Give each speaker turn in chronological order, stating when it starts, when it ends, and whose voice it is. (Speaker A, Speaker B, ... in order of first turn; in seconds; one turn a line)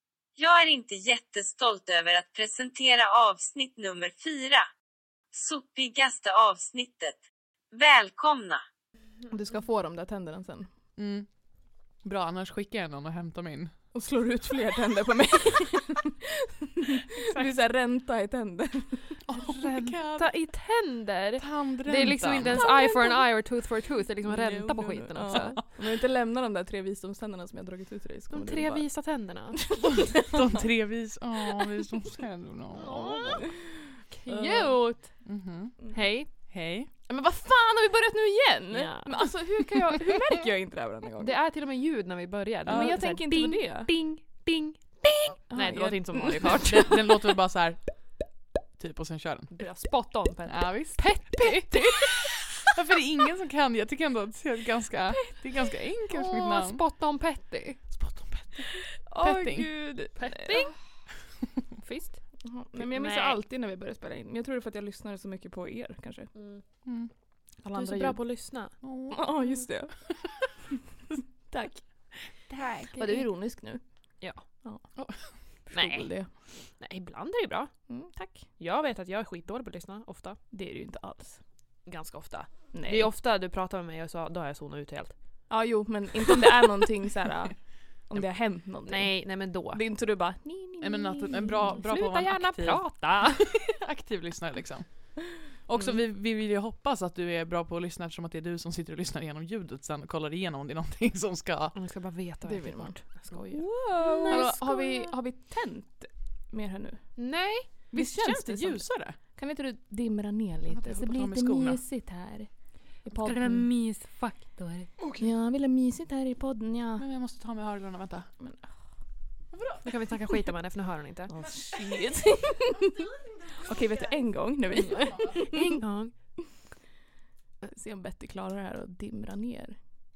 Speaker A: 0.4-4.6
Speaker A: 5.3-7.2
Speaker A: 7.7-8.6
Speaker B: 9.3-10.7
Speaker C: 10.9-11.3
Speaker C: 12.0-13.7
Speaker B: 13.9-19.1
Speaker D: 17.2-17.6
Speaker C: 19.2-20.3
Speaker D: 19.3-25.6
Speaker C: 21.4-22.6
Speaker B: 22.4-23.3
Speaker B: 24.2-28.9
Speaker C: 25.3-25.6
Speaker D: 28.3-29.6
Speaker B: 29.7-30.6
Speaker C: 29.9-33.5
Speaker B: 32.8-34.8
Speaker D: 32.8-33.4
Speaker D: 34.1-35.2
Speaker C: 34.3-34.7
Speaker C: 35.2-36.9
Speaker D: 35.9-36.3
Speaker B: 37.1-41.4
Speaker D: 38.7-39.3
Speaker D: 41.2-47.0
Speaker C: 42.6-43.0
Speaker B: 42.7-43.9
Speaker B: 45.5-47.1
Speaker C: 46.3-48.2
Speaker C: 48.7-49.6
Speaker D: 49.5-52.1
Speaker C: 50.4-52.1
Speaker B: 51.3-51.9
Speaker C: 52.7-56.8
Speaker D: 56.1-57.8
Speaker C: 57.9-59.7
Speaker B: 59.0-60.7
Speaker D: 60.1-60.8
Speaker D: 61.8-62.2
Speaker B: 62.4-66.3
Speaker D: 62.8-63.4
Speaker D: 66.3-66.6
Speaker C: 66.8-67.1
Speaker B: 67.6-68.2
Speaker D: 67.7-68.7
Speaker C: 68.8-69.3
Speaker B: 69.1-69.9
Speaker B: 71.5-71.8
Speaker C: 72.5-72.9
Speaker D: 72.8-73.3
Speaker B: 72.9-73.8
Speaker C: 75.0-75.2
Speaker B: 75.7-76.3
Speaker D: 75.7-76.1
Speaker D: 76.7-77.7
Speaker B: 77.9-78.5
Speaker D: 78.6-80.4
Speaker B: 80.5-81.4
Speaker D: 81.8-85.1
Speaker B: 82.7-83.1
Speaker B: 85.5-91.8
Speaker D: 88.8-89.8
Speaker C: 90.8-101.7
Speaker D: 91.7-93.6
Speaker D: 101.7-105.1
Speaker B: 102.4-113.7
Speaker C: 104.1-104.6
Speaker D: 107.2-107.9
Speaker C: 107.9-109.2
Speaker C: 110.7-111.8
Speaker D: 113.2-114.9
Speaker C: 115.0-115.3
Speaker B: 115.2-117.0
Speaker C: 117.0-118.3
Speaker B: 118.4-118.8
Speaker C: 119.5-119.9
Speaker D: 119.8-121.3
Speaker B: 121.3-123.1
Speaker C: 121.4-122.3
Speaker B: 123.6-125.7
Speaker D: 124.7-126.6
Speaker B: 127.6-129.9